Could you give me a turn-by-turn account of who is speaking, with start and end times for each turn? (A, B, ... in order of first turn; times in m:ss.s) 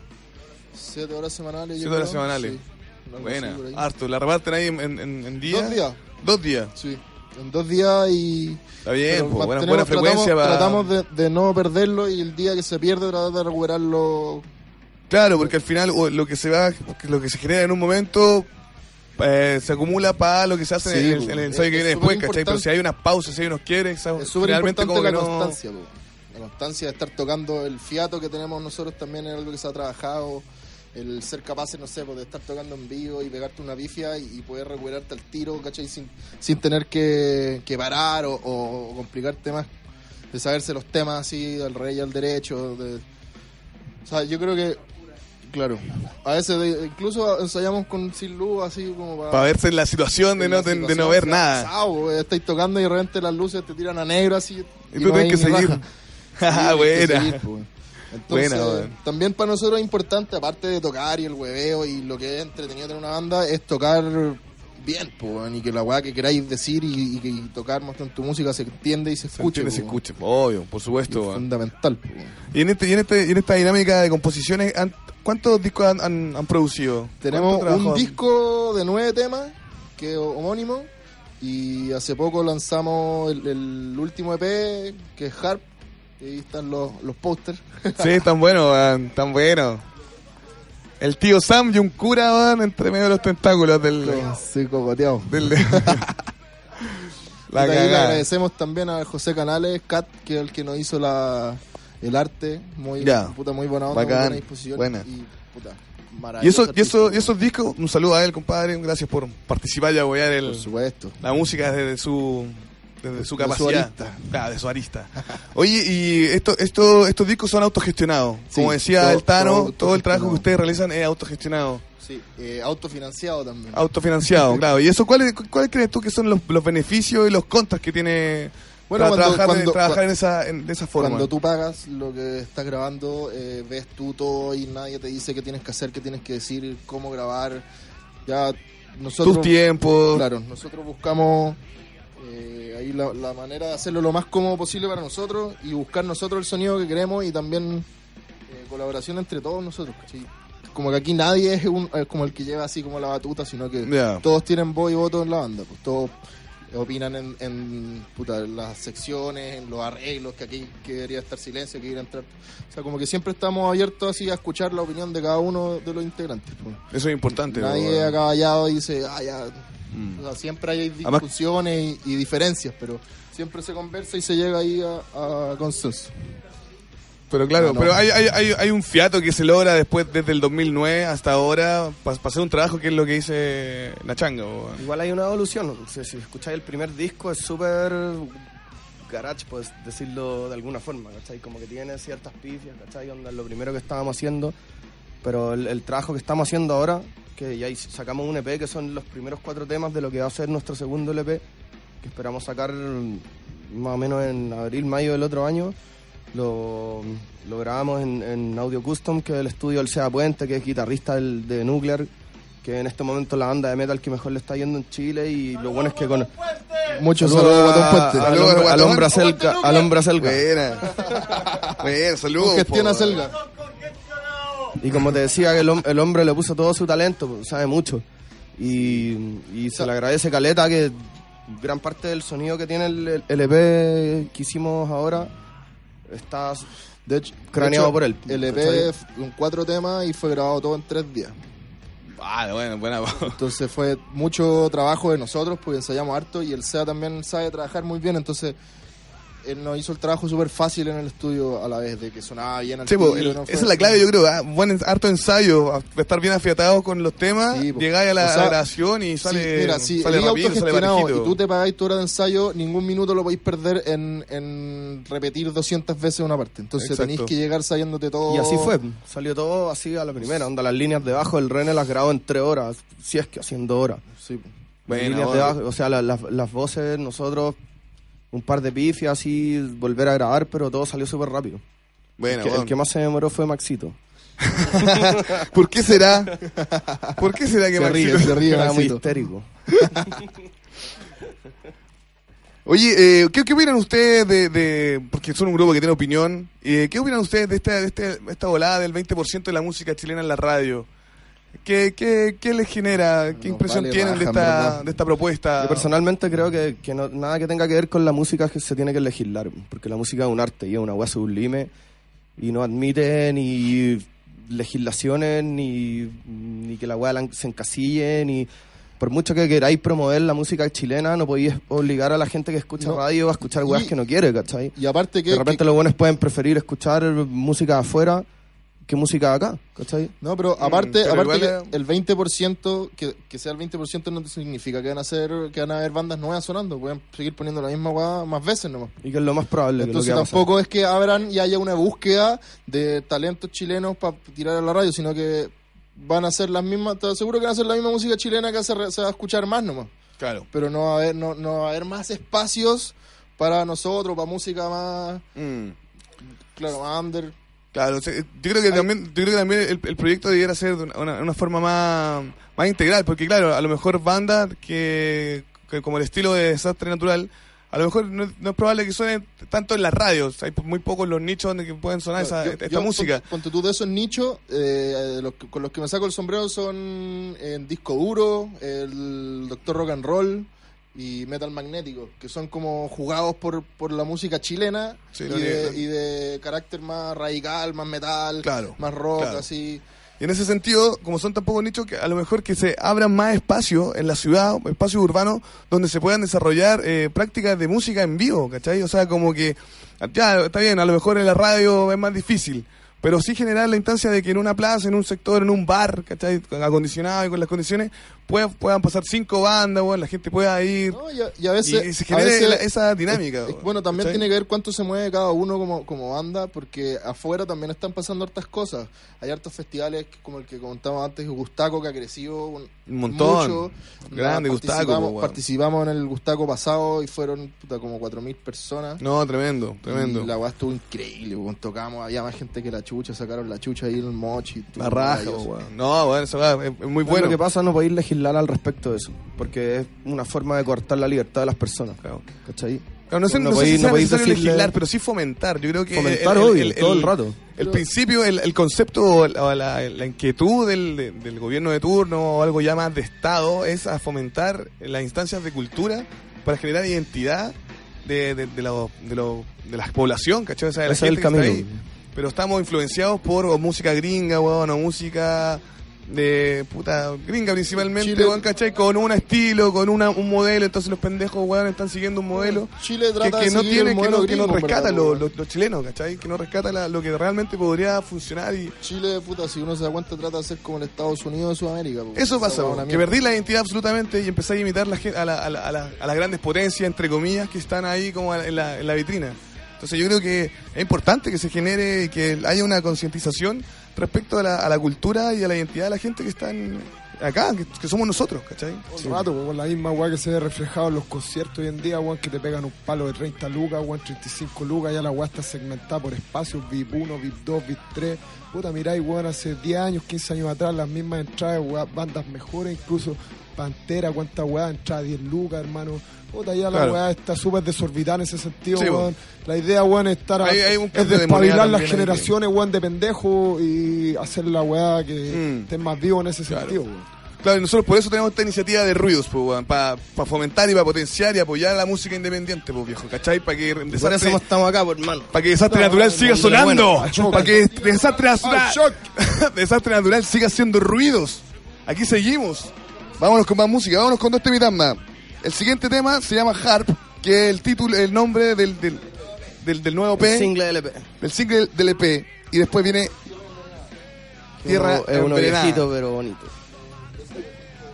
0:00.7-0:03.8 A
0:01.8-0:02.6 B
0:03.2-0:06.7 B
0:05.4-0:06.0 A
0:06.7-0:14.4 A
0:08.8-0:10.9 B
0:15.1-0:18.5 B
0:19.2-0:25.6 B
0:20.8-0:22.6 A
0:24.2-0:39.7 A
0:40.3-0:43.0 A
0:44.0-0:44.8 A
0:45.4-0:49.5 A
0:49.3-0:51.7 B
0:50.4-0:55.8 A
0:54.9-0:55.8 B
0:56.4-0:57.4 B
0:56.4-1:10.0 A
0:58.3-0:58.9 B
1:09.4-1:11.4 B
1:11.1-1:12.3 A
1:12.5-1:18.1 B
1:17.2-1:20.9 A
1:21.4-1:25.6 A
1:26.2-1:28.1 A
1:28.0-1:29.8 B
1:31.0-1:34.2 B
1:34.0-1:36.0 A
1:35.3-1:36.1 B
1:37.5-1:38.2 B
1:37.5-1:47.3 A
1:43.0-1:43.3 B
1:43.9-1:45.0 B
1:46.4-1:50.6 B
1:50.4-1:51.2 A
1:51.2-2:01.8 B
1:53.2-1:54.3 A
1:58.5-2:00.4 A
2:02.0-2:03.8 A
2:03.7-2:11.3 B
2:04.4-2:04.6 A
2:08.9-2:10.0 A
2:11.0-2:17.6 A
2:18.2-2:19.6 A
2:19.2-2:20.2 B
2:20.1-2:21.6 A
2:22.2-2:27.9 A
2:28.5-2:36.2 A
2:33.8-2:34.2 B
2:36.7-2:46.8 A
2:46.9-2:48.2 B
2:47.4-2:56.2 A
2:49.9-2:50.2 B
2:57.3-3:04.8 B
2:57.6-2:58.0 A
3:04.8-3:08.4 C
3:09.1-3:14.5 C
3:15.2-3:21.4 C
3:22.0-3:25.8 C
3:26.3-3:32.1 C
3:32.6-3:36.3 C
3:36.9-3:38.5 A
3:37.2-3:40.4 C
3:37.2-3:39.3 B
3:40.2-3:43.2 B
3:40.9-3:41.8 A
3:42.4-3:43.4 A
3:44.8-3:48.0 C
3:48.6-3:55.3 C
3:56.1-3:56.7 C
3:57.0-4:01.4 A
3:57.5-3:58.9 C
4:02.2-4:03.4 B
4:03.3-4:08.6 A
4:09.4-4:14.0 A
4:12.9-4:21.4 B
4:17.5-4:18.6 A
4:19.2-4:28.8 A
4:26.8-4:27.3 B
4:28.3-4:34.0 C
4:34.1-4:34.5 A
4:34.9-4:37.6 C
4:34.9-4:35.6 B
4:38.3-4:41.6 C
4:42.2-4:42.7 B
4:42.2-4:44.0 C
4:44.4-4:46.4 B
4:44.7-4:45.4 C
4:46.4-4:47.2 A
4:47.2-4:48.7 B
4:47.8-4:49.5 C
4:47.8-4:49.0 A
4:52.6-5:00.9 B
5:01.6-5:05.9 B
5:03.4-5:04.8 A
5:05.6-5:11.7 C
5:12.4-5:24.8 C
5:23.6-5:23.9 A
5:24.8-5:25.6 A
5:25.3-5:28.3 C
5:28.8-5:30.1 C
5:30.2-5:39.0 A
5:30.6-5:31.6 B
5:39.0-5:40.5 C
5:39.8-5:49.9 A
5:50.2-5:50.4 B
5:50.5-5:55.2 A
5:55.4-5:55.8 B
5:56.5-5:57.3 A
5:57.7-6:13.2 B
6:12.2-6:29.8 A
6:25.1-6:25.8 B
6:28.4-6:29.4 B
6:30.2-6:51.0 B
6:50.9-7:09.0 A
6:51.6-6:54.2 B
7:02.9-7:05.4 B
7:09.0-7:10.3 B
7:09.8-7:15.5 A
7:14.8-7:17.4 B
7:17.0-7:24.7 C
7:23.1-7:58.8 B
7:25.9-7:27.4 C
7:27.6-7:27.8 A
7:40.8-7:41.8 C
7:48.0-7:48.4 A
7:52.3-7:55.3 A
7:58.8-8:03.1 A
8:02.1-8:18.9 B
8:18.9-8:47.1 D
8:36.7-8:37.0 B
8:38.7-8:39.1 B
8:40.4-8:42.3 B
8:45.3-8:45.7 B
8:46.5-8:46.8 B
8:47.4-8:54.4 B
8:53.9-8:57.5 C
8:55.3-9:09.1 B
8:57.0-8:57.8 D
8:58.4-8:59.0 D
9:09.6-9:10.5 B
9:10.2-9:11.1 C
9:11.2-9:13.1 B
9:14.6-9:16.5 C
9:14.6-9:15.9 B